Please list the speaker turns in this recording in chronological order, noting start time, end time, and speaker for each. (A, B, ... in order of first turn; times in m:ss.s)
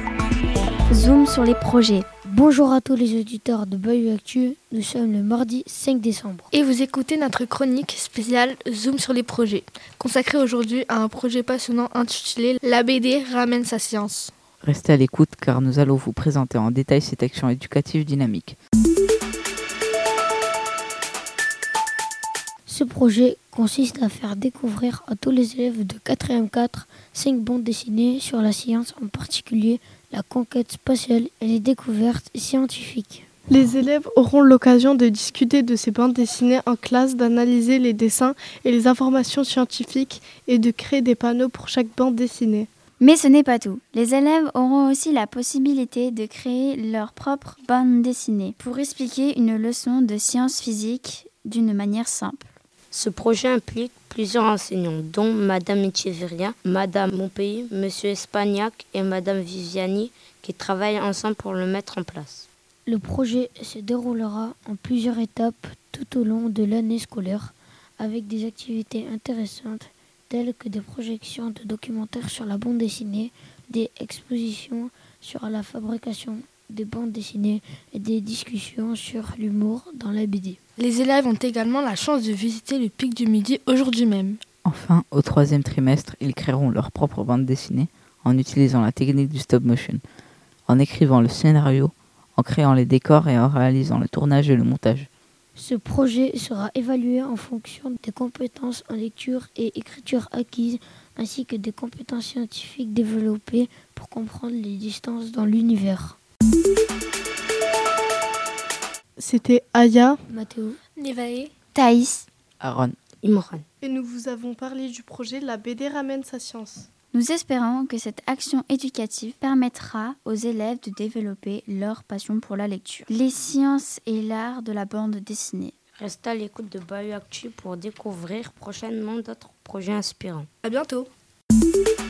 0:00.9-0:02.1 A
0:02.2-0:06.5 B
0:06.5-0:14.3 C
0:14.6-0:18.6 D
0:22.7-0:33.3 B
0:33.5-0:42.7 E
0:43.0-0:52.5 A
0:52.9-1:02.5 F
1:02.9-1:20.6 B
1:20.8-1:24.4 C
1:24.6-1:30.0 D
1:30.7-1:35.1 D
1:35.6-1:46.2 B
1:49.2-1:50.2 E
1:50.3-1:50.8 B
1:51.0-1:51.5 C
1:51.8-1:52.2 A
1:52.6-1:53.0 D
1:53.2-1:53.6 F
1:53.8-1:56.9 E
1:57.1-2:05.7 A
2:06.0-2:10.5 F
2:10.6-2:11.1 C